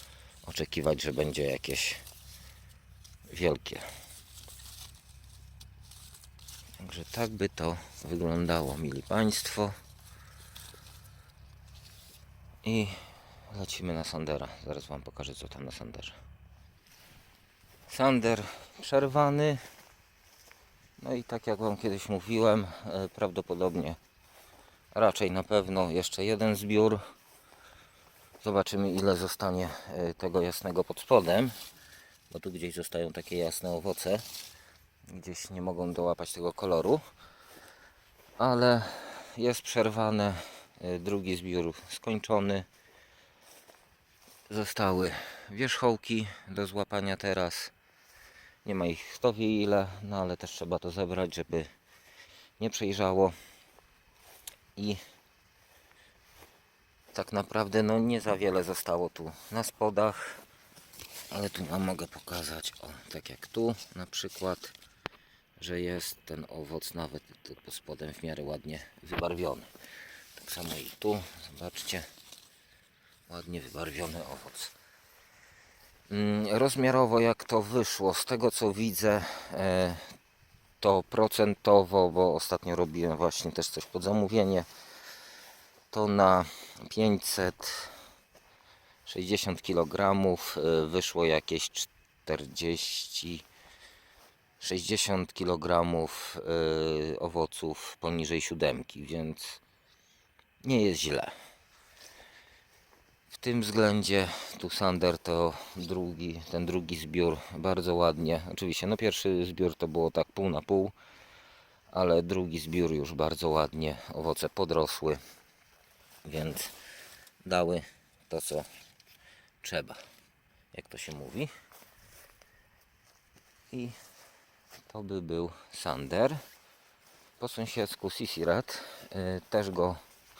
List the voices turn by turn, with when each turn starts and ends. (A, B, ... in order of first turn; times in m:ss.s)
0:00.4-0:02.0 A
0:03.3-0:03.8 A
0:06.8-0:09.7 A
0:12.6-0:13.0 A
0:13.5-0:16.2 A
0:17.9-0:19.6 A
0:21.0-0:24.0 A
0:24.9-0:27.0 A
0:28.4-0:31.5 A
0:32.3-0:34.2 A
0:35.1-0:37.0 A
0:38.4-0:42.6 A
0:44.5-0:47.7 A
0:48.6-0:51.7 A
0:52.6-0:53.3 A
0:54.8-0:55.0 A
0:57.1-1:00.4 A
1:01.3-1:04.7 A
1:05.6-1:09.7 A
1:10.3-1:12.1 A
1:13.3-1:14.7 A
1:16.1-1:20.1 A
1:20.8-1:24.7 A
1:25.9-1:27.9 A
1:29.0-1:33.4 A
1:34.6-1:39.6 A
1:40.6-1:41.3 A
1:43.3-1:50.9 A
1:51.9-1:55.2 A
1:56.2-1:56.7 A
1:57.4-1:58.6 A
1:59.6-2:00.0 A
2:00.7-2:01.5 A
2:03.7-2:04.0 A
2:04.9-2:06.4 A
2:07.4-2:10.0 A